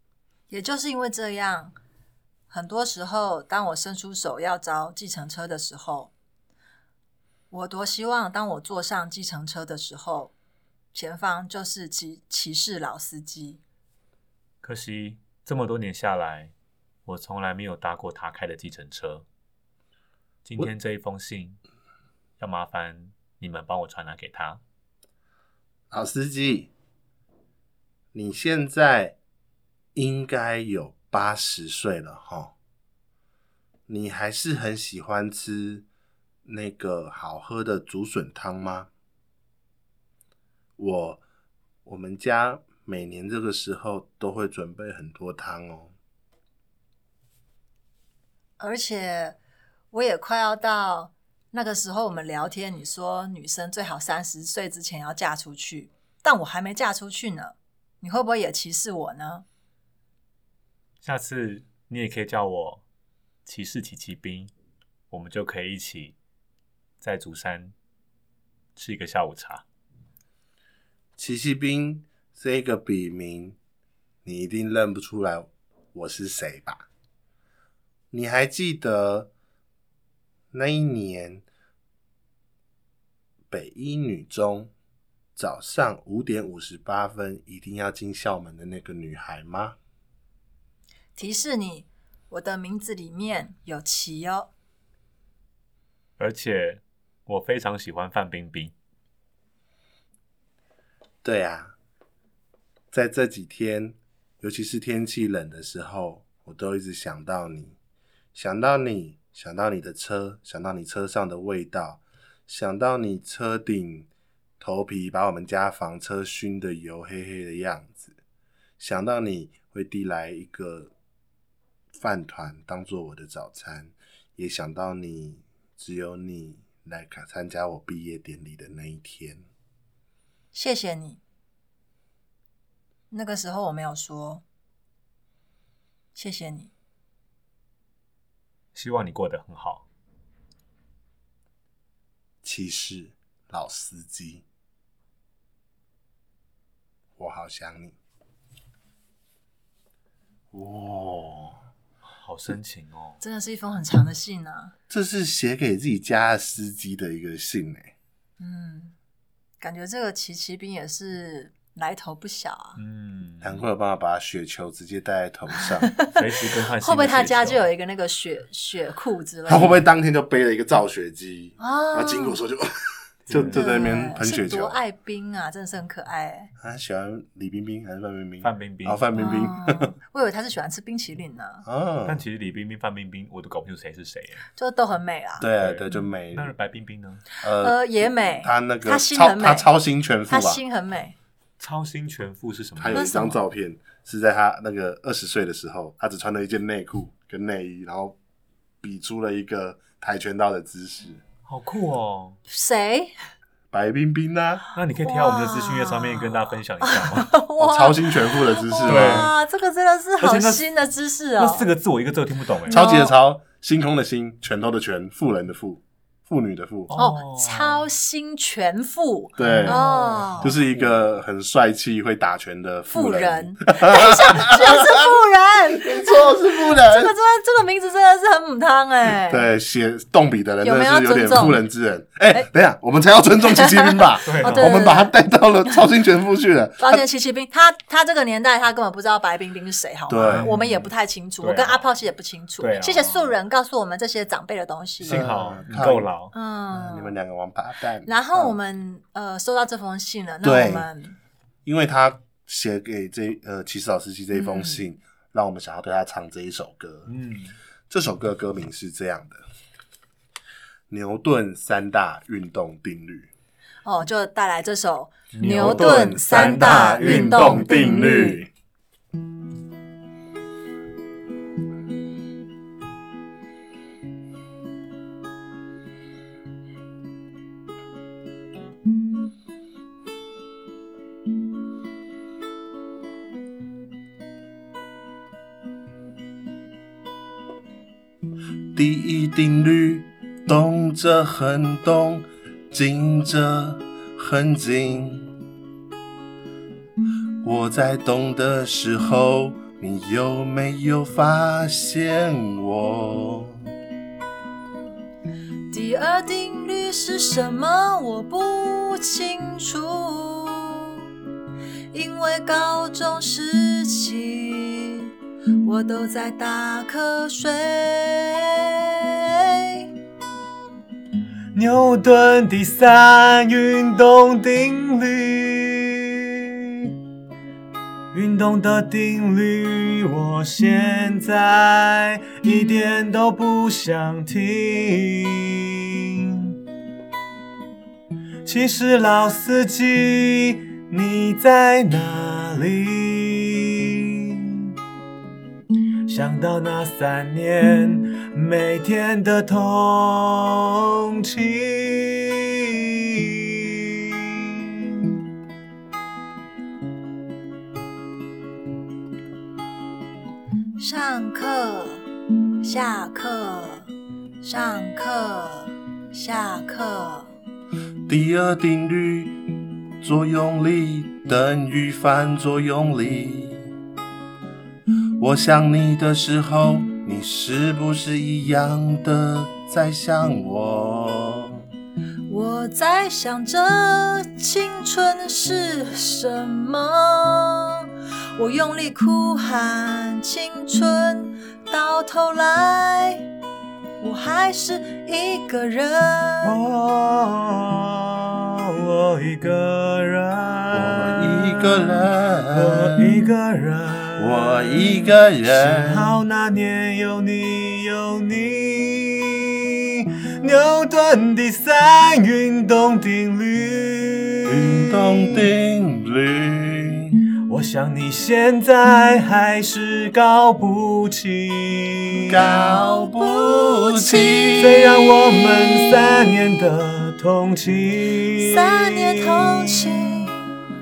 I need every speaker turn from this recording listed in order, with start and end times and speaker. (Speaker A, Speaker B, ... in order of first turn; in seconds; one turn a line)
Speaker A: 0.5-1.8
Speaker A: 2.5-6.1
Speaker A: 7.5-10.3
Speaker A: 10.9-13.6
Speaker B: 14.6-16.5
Speaker B: 17.1-19.2
Speaker B: 20.4-21.6
Speaker B: 22.4-24.6
Speaker C: 25.9-26.7
Speaker C: 28.1-29.2
Speaker C: 29.9-32.5
Speaker C: 33.9-35.9
Speaker C: 36.5-38.9
Speaker C: 40.8-41.2
Speaker C: 41.9-45.9
Speaker A: 48.6-49.4
Speaker A: 49.9-59.5
Speaker B: 61.0-62.8
Speaker B: 63.5-64.5
Speaker B: 65.1-66.2
Speaker B: 67.0-67.7
Speaker B: 68.8-69.6
Speaker C: 71.2-73.6
Speaker C: 74.2-76.8
Speaker C: 78.1-79.3
Speaker C: 80.5-81.4
Speaker C: 83.5-84.7
Speaker C: 85.4-89.8
Speaker A: 91.2-94.5
Speaker B: 96.2-98.7
Speaker C: 101.2-101.8
Speaker C: 102.9-107.8
Speaker C: 108.3-114.1
Speaker C: 114.6-118.2
Speaker C: 118.8-120.9
Speaker C: 122.0-129.4
Speaker A: 130.5-131.2
Speaker A: 133.1-134.4
Speaker A: 136.2-136.7
Speaker B: 138.8-139.8
Speaker C: 142.4-144.4
Speaker C: 147.2-148.0
Speaker C: 150.5-151.6
Speaker B: 152.2-153.2
Speaker A: 153.2-154.7
Speaker C: 154.9-157.9
Speaker A: 158.4-158.9
Speaker A: 159.6-162.8
Speaker B: 162.8-163.6
Speaker C: 163.4-165.9
Speaker A: 165.8-166.2
Speaker B: 166.2-167.7
Speaker A: 166.8-169.8
Speaker C: 169.5-174.8
Speaker A: 171.6-172.4
Speaker B: 173.3-173.7
Speaker A: 173.5-176.5
Speaker C: 176.6-179.9
Speaker B: 178.4-179.1
Speaker A: 179.2-181.7
Speaker C: 181.7-182.2
Speaker B: 182.1-184.5
Speaker A: 184.6-185.5
Speaker C: 185.4-186.5
Speaker B: 185.6-187.2
Speaker C: 187.4-190.6
Speaker A: 187.6-189.7
Speaker A: 190.3-191.2
Speaker B: 191.6-193.0
Speaker C: 192.8-198.2
Speaker A: 192.9-193.4
Speaker C: 198.8-201.2
Speaker B: 201.5-202.4
Speaker A: 202.5-203.1
Speaker C: 203.7-204.6
Speaker B: 204.7-207.3
Speaker A: 205.0-211.7
Speaker C: 207.6-209.3
Speaker B: 208.8-209.3
Speaker B: 210.2-210.7
Speaker B: 211.4-212.8
Speaker A: 212.7-213.1
Speaker C: 212.7-216.9
Speaker B: 216.9-217.8
Speaker A: 217.0-220.5
Speaker B: 219.4-221.0
Speaker C: 219.4-225.1
Speaker A: 222.9-229.5
Speaker C: 225.8-227.1
Speaker C: 229.2-237.0
Speaker A: 230.6-231.6
Speaker A: 233.5-235.2
Speaker B: 234.2-234.8
Speaker A: 236.8-245.3
Speaker C: 240.1-240.5
Speaker B: 240.2-240.9
Speaker B: 241.4-241.8
Speaker B: 242.6-243.3
Speaker B: 245.0-246.3
Speaker C: 245.1-246.1
Speaker A: 246.3-247.2
Speaker C: 246.7-248.6
Speaker A: 248.1-251.2
Speaker C: 250.4-250.9
Speaker C: 251.7-257.1
Speaker A: 254.3-254.8
Speaker B: 257.1-257.6
Speaker C: 257.9-259.4
Speaker C: 260.9-263.3
Speaker A: 263.8-268.4
Speaker B: 265.3-268.2
Speaker C: 265.5-268.5
Speaker C: 288.7-295.3
Speaker C: 297.4-303.7
Speaker A: 305.7-311.1
Speaker A: 311.9-319.9
Speaker B: 321.5-326.9
Speaker B: 328.1-336.5
Speaker B: 338.4-344.7
Speaker B: 346.1-355.0
Speaker A: 360.8-362.1
Speaker A: 362.6-363.9
Speaker A: 364.4-367.3
Speaker C: 368.1-369.4
Speaker C: 370.0-373.6
Speaker C: 375.2-381.7
Speaker A: 382.3-393.3
Speaker A: 394.0-396.6
Speaker B: 396.4-415.5
Speaker C: 400.7-403.2
Speaker C: 404.2-406.1
Speaker C: 414.5-417.1
Speaker B: 417.5-422.5
Speaker C: 422.3-424.7
Speaker A: 422.4-425.9
Speaker B: 424.6-430.1
Speaker A: 428.3-430.4